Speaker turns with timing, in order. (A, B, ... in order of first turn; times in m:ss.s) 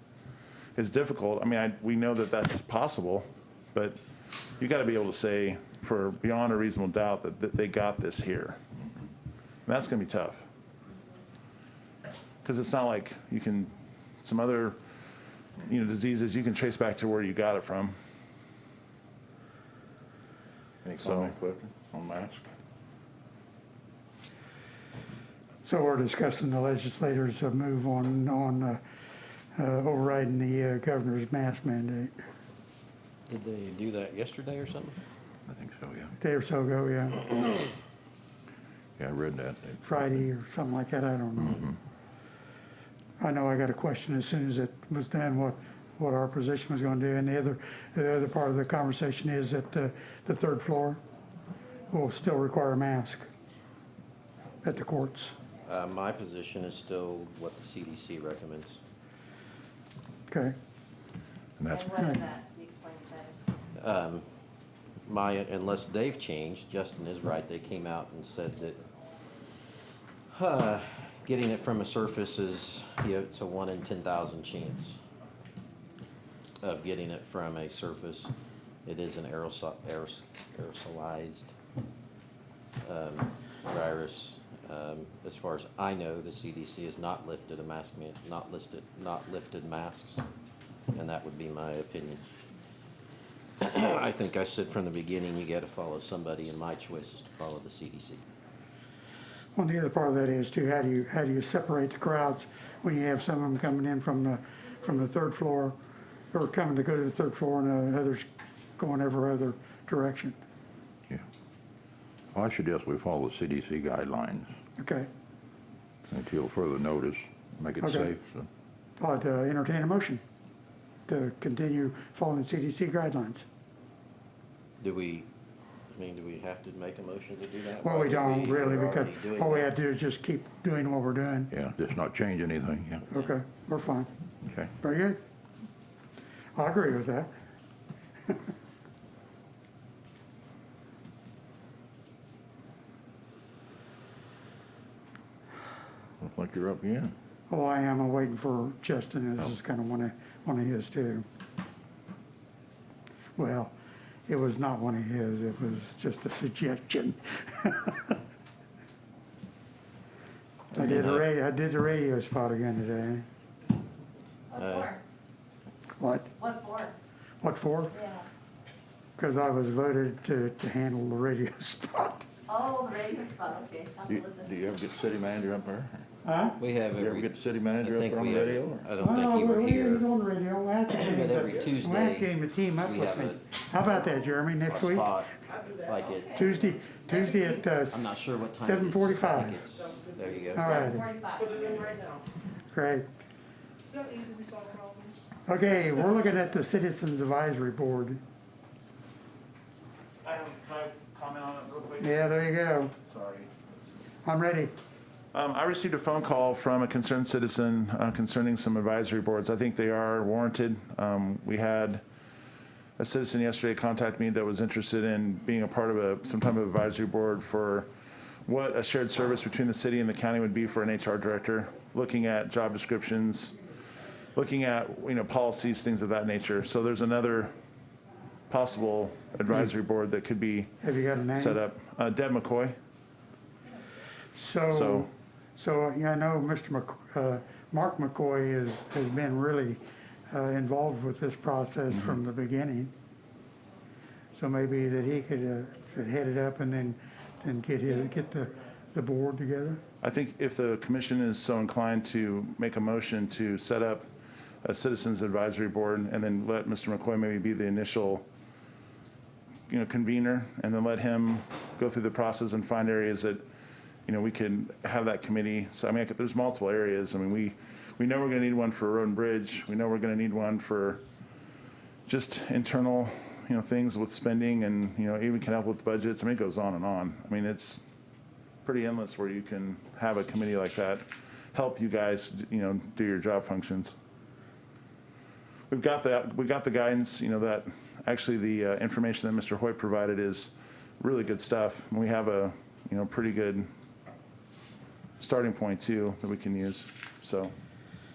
0:00.8-0:04.0 A
0:04.6-0:08.6 A
0:09.6-0:10.4 A
0:12.4-0:13.7 A
0:14.2-0:14.8 A
0:15.6-0:18.0 A
0:20.8-0:22.4 B
0:21.0-0:21.3 A
0:25.6-0:28.8 C
0:29.6-0:32.2 C
0:33.3-0:35.0 D
0:35.4-0:36.1 B
0:36.2-0:37.6 C
0:39.0-0:40.2 B
0:39.8-0:41.7 C
0:43.2-0:51.0 C
0:51.9-0:53.3 C
0:54.6-0:55.3 C
0:55.6-0:58.8 D
1:00.3-1:00.5 C
1:01.6-1:02.1 B
1:01.7-1:03.3 E
1:03.8-1:04.2 D
1:05.0-1:08.8 D
1:10.3-1:15.0 D
1:16.6-1:18.3 D
1:18.8-1:21.5 D
1:22.8-1:30.2 D
1:30.9-1:32.2 D
1:33.6-1:38.2 D
1:39.5-1:45.7 C
1:46.3-1:48.2 C
1:48.8-1:50.3 C
1:52.3-1:54.5 B
1:54.8-1:55.1 C
1:56.0-1:58.5 B
1:57.8-1:58.1 C
1:59.0-2:00.2 C
2:01.1-2:03.4 C
2:04.8-2:05.3 D
2:05.9-2:09.7 D
2:07.8-2:11.5 C
2:11.5-2:13.1 B
2:13.1-2:14.1 C
2:14.4-2:14.7 B
2:14.8-2:15.2 C
2:16.5-2:17.3 C
2:26.2-2:27.1 B
2:27.5-2:31.2 C
2:33.4-2:33.7 C
2:34.3-2:38.2 C
2:40.7-2:41.3 D
2:40.7-2:43.2 C
2:44.5-2:45.0 E
2:44.5-2:45.0 D
2:46.0-2:46.3 C
2:46.4-2:46.9 E
2:47.4-2:47.9 C
2:47.9-2:48.2 E
2:49.2-2:52.2 C
2:52.5-2:54.6 E
2:54.0-2:56.0 B
2:56.2-2:56.6 C
2:56.6-3:00.0 D
2:56.9-2:58.8 B
2:59.0-3:05.1 C
3:00.9-3:03.6 D
3:04.6-3:06.5 D
3:05.6-3:05.9 F
3:06.0-3:06.4 E
3:06.3-3:08.0 C
3:07.1-3:07.6 F
3:07.1-3:07.6 E
3:07.9-3:10.8 D
3:08.6-3:09.6 C
3:10.5-3:11.1 C
3:10.6-3:11.8 E
3:10.8-3:12.2 F
3:12.7-3:13.0 C
3:13.8-3:15.3 F
3:15.5-3:18.2 C
3:20.2-3:22.3 A
3:22.0-3:22.9 C
3:23.0-3:23.5 A
3:24.2-3:24.7 C
3:25.3-3:32.0 A
3:33.0-3:37.9 A
3:38.4-3:43.5 A
3:44.4-3:47.5 A
3:48.5-3:50.7 A
3:50.8-3:51.6 C
3:51.3-3:52.8 A
3:54.3-4:02.9 C
3:54.7-3:55.1 A
4:04.3-4:09.8 C
4:10.0-4:14.1 A
4:14.6-4:18.2 A
4:19.7-4:23.4 A
4:24.0-4:31.0 A
4:32.1-4:37.8 A
4:38.6-4:43.9 A
4:45.7-4:53.7 A
4:55.2-4:57.5 A